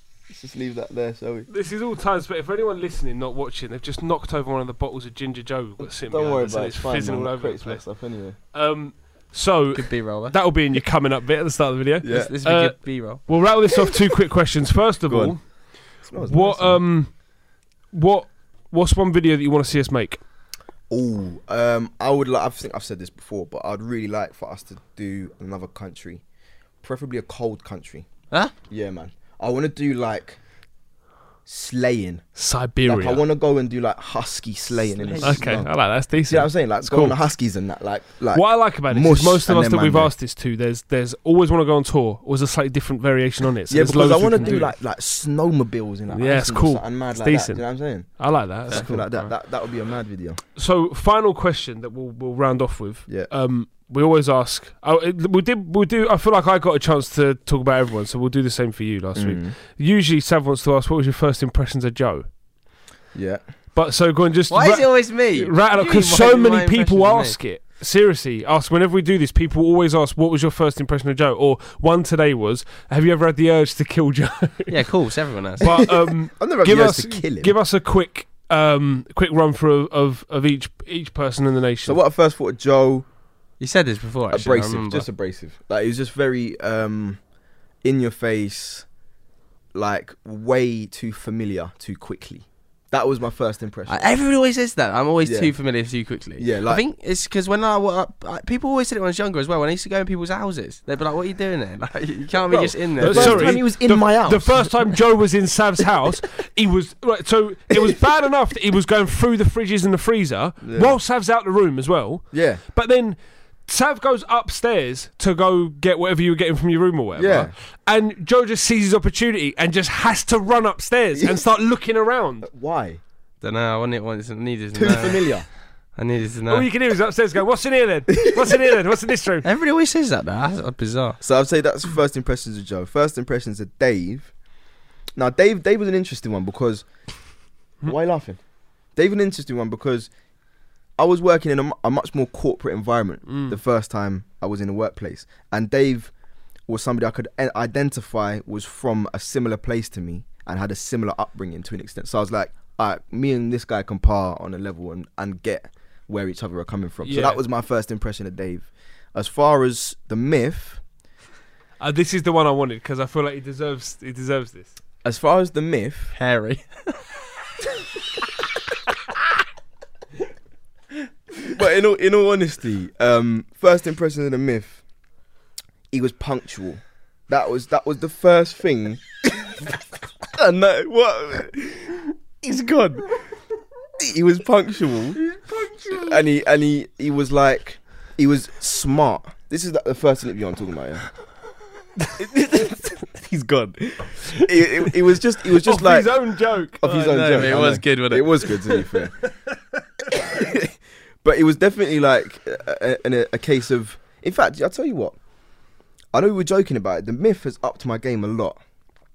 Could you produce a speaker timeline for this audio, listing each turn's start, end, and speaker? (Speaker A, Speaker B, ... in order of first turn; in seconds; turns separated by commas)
Speaker A: 0.3-1.5, Speaker B: 1.5-7.8, Speaker A: 5.8-8.4, Speaker B: 8.5-17.2, Speaker C: 9.7-10.4, Speaker A: 12.0-12.3, Speaker C: 12.0-13.2, Speaker A: 15.1-16.8, Speaker B: 17.9-20.2, Speaker A: 20.9-26.2, Speaker A: 26.8-28.1, Speaker A: 28.7-30.4, Speaker A: 31.4-32.2, Speaker B: 32.4-33.2, Speaker A: 32.8-40.1, Speaker C: 35.0-35.5, Speaker B: 35.2-37.2, Speaker B: 38.3-44.7, Speaker A: 43.7-50.4, Speaker B: 46.1-49.3, Speaker B: 50.5-62.3, Speaker A: 59.1-59.5, Speaker A: 63.1-63.4, Speaker B: 63.7-74.9, Speaker C: 64.5-67.4, Speaker C: 74.7-75.7, Speaker B: 75.6-82.0, Speaker A: 75.6-77.5, Speaker A: 81.8-83.0, Speaker C: 83.6-85.1, Speaker A: 84.3-87.2, Speaker A: 87.8-88.8, Speaker A: 89.7-94.0, Speaker C: 93.9-103.6, Speaker A: 95.2-95.5, Speaker A: 96.4-96.8, Speaker A: 102.5-104.8, Speaker B: 103.0-122.5, Speaker A: 110.6-111.0, Speaker A: 112.3-112.6, Speaker A: 117.2-117.5, Speaker A: 121.2-121.4, Speaker A: 122.4-123.0, Speaker C: 123.4-125.4, Speaker A: 124.7-125.5, Speaker C: 125.9-126.7, Speaker B: 126.5-129.4, Speaker A: 128.2-128.5, Speaker C: 129.4-131.2, Speaker A: 131.2-134.3, Speaker A: 135.2-136.8, Speaker A: 137.8-138.4, Speaker A: 138.9-140.1, Speaker A: 141.0-146.1, Speaker B: 143.3-143.6, Speaker A: 146.7-160.8, Speaker B: 157.0-157.4, Speaker B: 161.8-164.8, Speaker A: 165.0-166.1, Speaker C: 166.1-167.0, Speaker A: 171.5-174.8, Speaker A: 175.9-183.1, Speaker A: 184.0-185.2, Speaker B: 185.2-186.2, Speaker A: 185.9-191.1, Speaker A: 192.2-199.1, Speaker B: 195.5-196.8, Speaker C: 196.8-198.5, Speaker A: 201.2-205.2, Speaker A: 206.1-208.6